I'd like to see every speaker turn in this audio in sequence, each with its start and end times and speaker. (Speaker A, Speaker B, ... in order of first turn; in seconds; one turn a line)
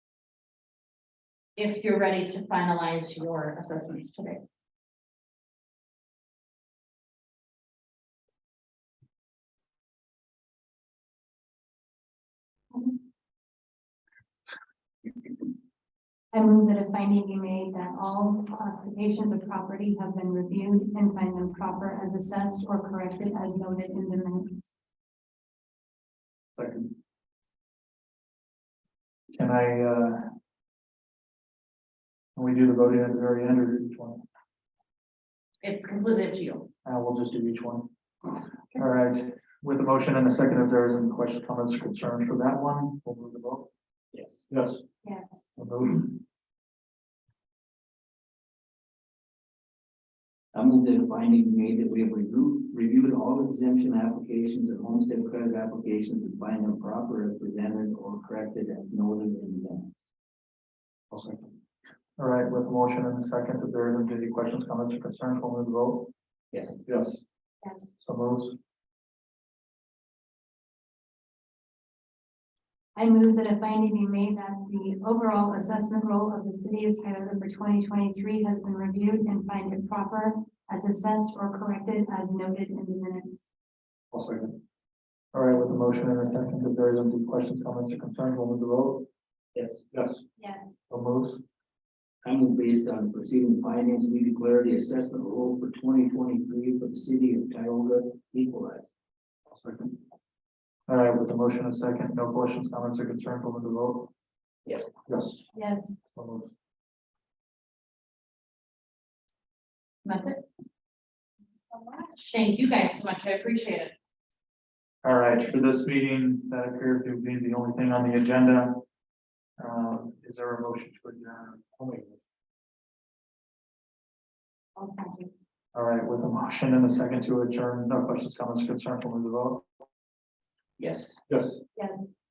Speaker A: 1.6-4.4
Speaker B: 16.3-24.7
Speaker C: 26.6-26.9
Speaker C: 29.3-30.3
Speaker C: 32.4-34.2
Speaker A: 35.6-36.7
Speaker C: 36.8-37.9
Speaker C: 38.8-43.7
Speaker D: 44.1-44.4
Speaker B: 45.0-45.4
Speaker C: 45.6-46.2
Speaker D: 50.5-60.0
Speaker C: 62.2-66.1
Speaker D: 66.5-66.8
Speaker B: 67.6-67.9
Speaker C: 68.0-68.6
Speaker B: 73.0-83.4
Speaker C: 84.1-84.4
Speaker C: 85.3-89.1
Speaker D: 89.6-89.8
Speaker B: 90.4-90.8
Speaker C: 90.9-91.4
Speaker D: 92.2-98.9
Speaker C: 100.9-104.1
Speaker D: 104.7-104.9
Speaker B: 105.5-106.0
Speaker C: 106.2-106.5
Speaker A: 110.0-110.4
Speaker A: 112.2-114.0
Speaker C: 115.0-118.8
Speaker C: 119.6-121.7
Speaker B: 124.8-125.3
Speaker C: 125.7-129.7
Speaker D: 130.8-131.2
Speaker B: 131.8-132.1